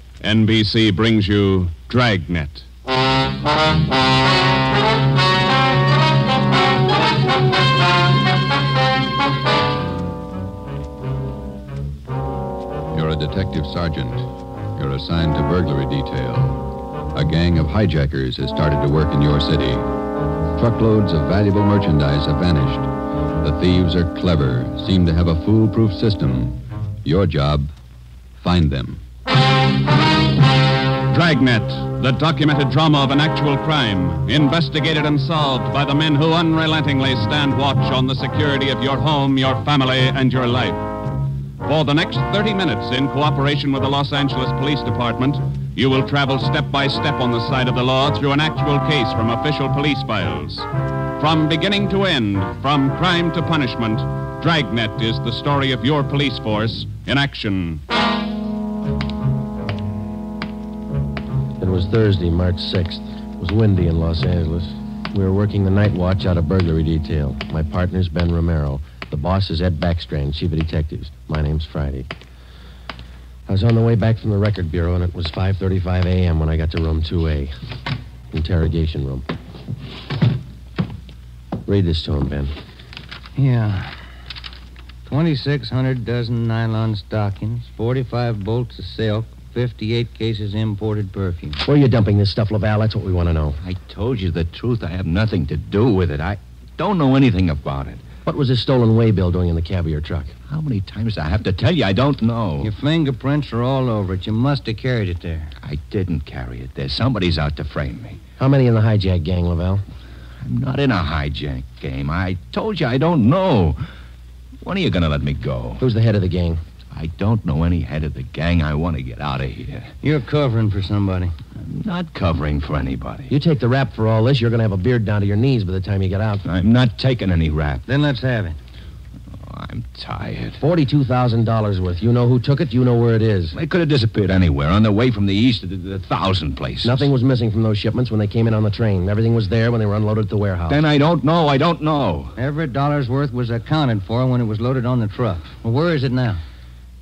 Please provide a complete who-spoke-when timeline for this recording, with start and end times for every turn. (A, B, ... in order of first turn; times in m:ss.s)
0:00.2-0:02.7 A
0:12.9-0:19.9 B
0:20.5-0:22.9 B
0:23.4-0:27.7 B
0:28.4-0:29.0 B
0:31.1-0:40.9 A
0:41.6-0:50.7 A
0:51.2-0:57.8 A
1:01.6-1:12.1 C
1:13.5-1:17.5 C
1:18.3-1:19.3 C
1:21.6-1:22.5 C
1:23.3-1:24.0 D
1:25.0-1:31.6 D
1:31.6-1:33.6 C
1:33.6-1:38.0 E
1:38.2-1:40.4 C
1:40.5-1:42.7 E
1:42.6-1:45.5 D
1:45.6-1:48.2 E
1:48.4-1:49.8 C
1:50.4-1:53.8 E
1:54.6-1:55.8 E
1:55.8-1:56.6 C
1:56.9-1:59.9 E
2:00.0-2:01.3 D
2:01.6-2:03.3 E
2:03.3-2:06.4 C
2:06.4-2:07.8 E
2:07.8-2:08.6 D
2:09.3-2:10.6 E
2:10.6-2:13.5 C
2:13.5-2:17.1 E
2:16.8-2:20.8 C
2:20.7-2:22.3 E
2:22.4-2:26.4 D